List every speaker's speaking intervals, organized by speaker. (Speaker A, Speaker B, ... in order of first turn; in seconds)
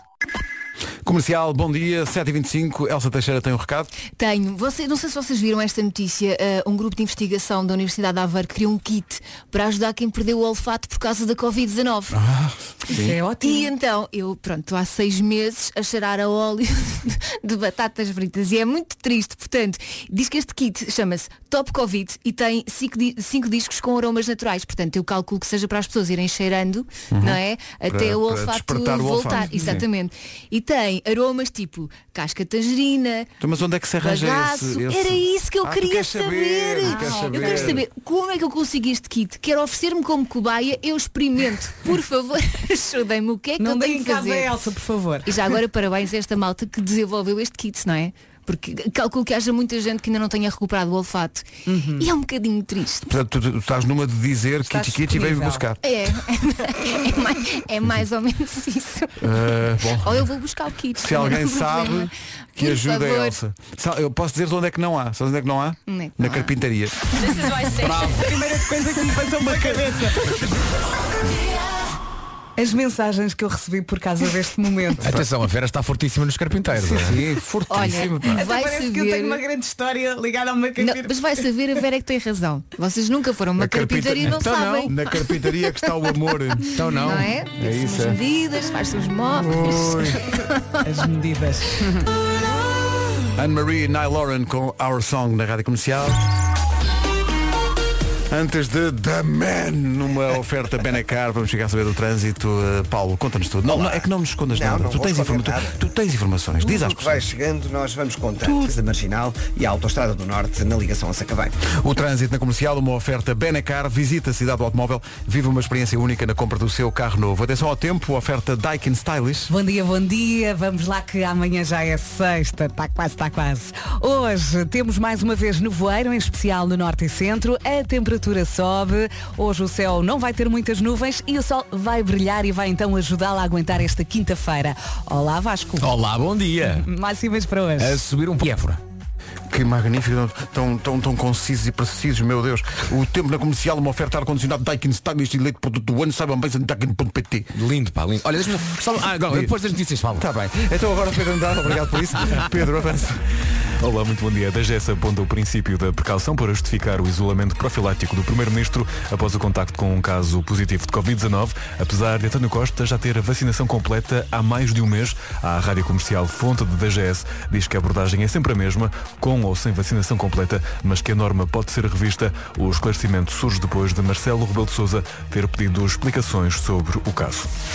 Speaker A: 1.0-3.9, 12.1-13.2, 27.1-29.9, 33.4-37.9, 53.1-55.8, 59.2-60.2, 60.9-67.0, 76.7-78.5, 83.6-86.8, 87.6-88.2, 89.4-90.2, 93.3-96.2, 98.3-107.2, 108.4-108.7, 111.7-119.5, 139.5-147.5, 150.1-153.2
Speaker B: 4.1-12.2, 13.4-33.3, 34.0-44.5, 45.2-53.1, 55.8-59.3, 59.9-63.4, 65.9-66.5, 67.2-67.9, 77.7-79.4, 80.8-85.0, 85.6-85.8, 86.9-90.8
Speaker C: 12.9-13.7, 36.9-37.7, 43.6-45.5, 51.7-52.1, 54.7-55.6, 67.8-70.4, 72.6-75.2, 78.3-81.4, 90.8-92.1, 119.5-135.9, 136.7-138.0
Speaker D: 75.0-77.2, 86.7-87.3, 135.8-136.9, 137.8-138.8, 147.5-150.2
Speaker E: 103.7-105.7, 106.6-111.6
Speaker F: 153.8-177.5